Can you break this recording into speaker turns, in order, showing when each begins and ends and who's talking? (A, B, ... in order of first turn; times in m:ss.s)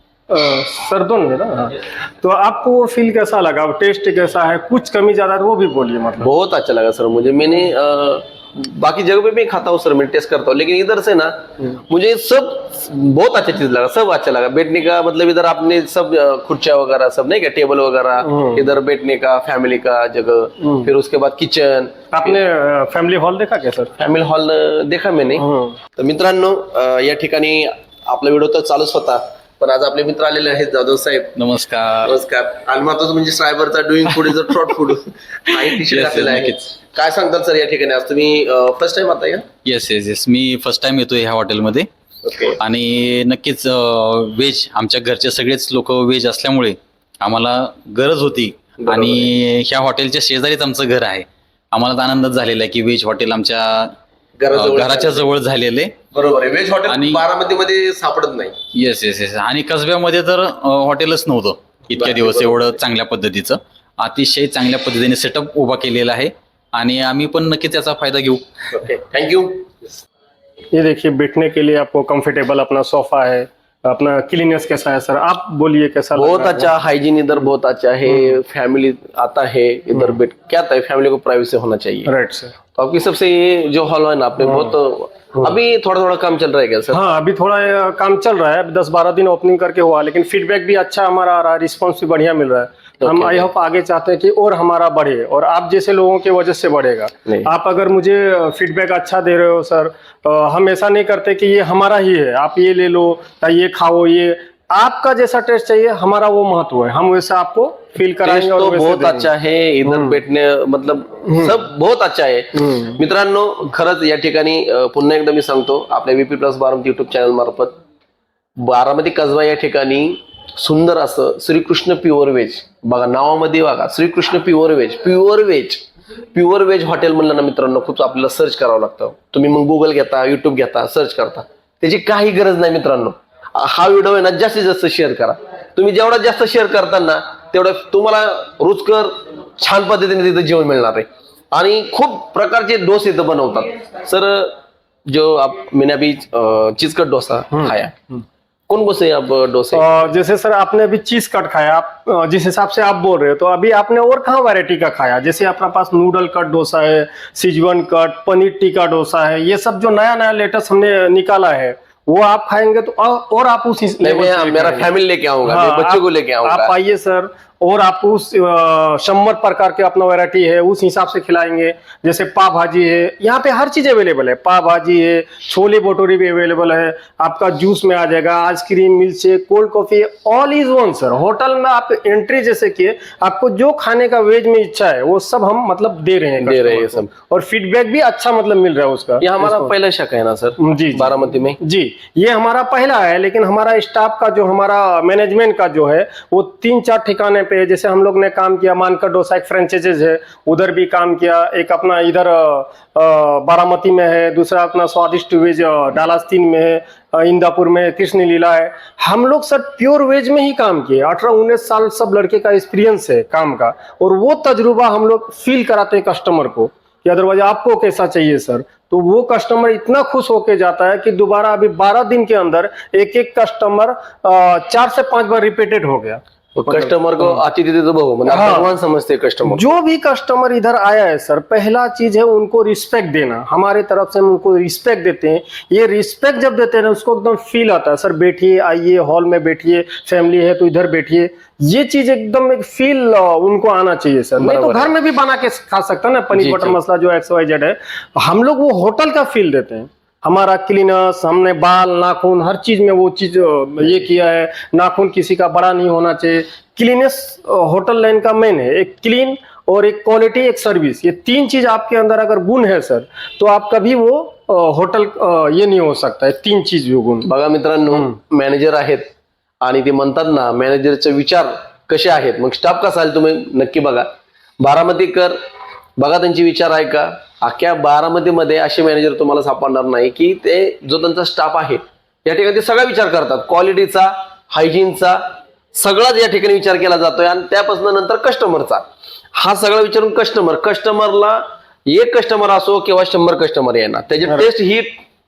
0:00.3-0:06.3 A
0:06.2-0:22.4 B
0:18.2-0:18.6 A
0:20.6-0:20.9 A
0:22.1-0:23.9 A
0:24.0-0:31.4 B
0:25.4-0:25.8 A
0:31.4-0:32.1 C
0:32.0-0:39.5 B
0:35.5-0:36.6 C
0:39.6-0:41.9 C
0:42.2-0:42.6 B
0:42.6-0:53.9 C
0:48.8-0:49.3 B
0:54.4-0:55.3 B
0:54.5-0:56.0 C
0:56.1-0:58.6 B
0:56.9-0:57.2 C
0:58.7-1:08.4 C
1:01.9-1:02.8 B
1:08.7-1:09.9 B
1:10.7-1:16.7 A
1:16.1-1:22.1 B
1:19.9-1:20.2 A
1:22.0-1:22.5 A
1:22.7-1:27.0 B
1:26.9-1:49.3 A
1:33.0-1:33.5 B
1:48.2-1:57.8 B
1:49.8-1:50.2 A
1:51.3-1:51.6 A
1:52.6-1:53.0 A
1:58.6-2:27.9 B
2:27.5-2:28.2 A
2:28.7-2:29.9 B
2:29.7-2:44.9 A
2:44.0-2:46.7 B
2:45.4-3:09.7 A
3:06.4-3:07.1 B
3:09.2-3:11.6 B
3:10.6-3:47.4 A
3:46.5-3:49.6 B
3:48.3-3:48.7 A
3:49.5-4:27.3 A
4:04.4-4:04.9 B
4:06.3-4:06.8 B
4:27.2-4:35.4 B
4:36.0-4:55.0 B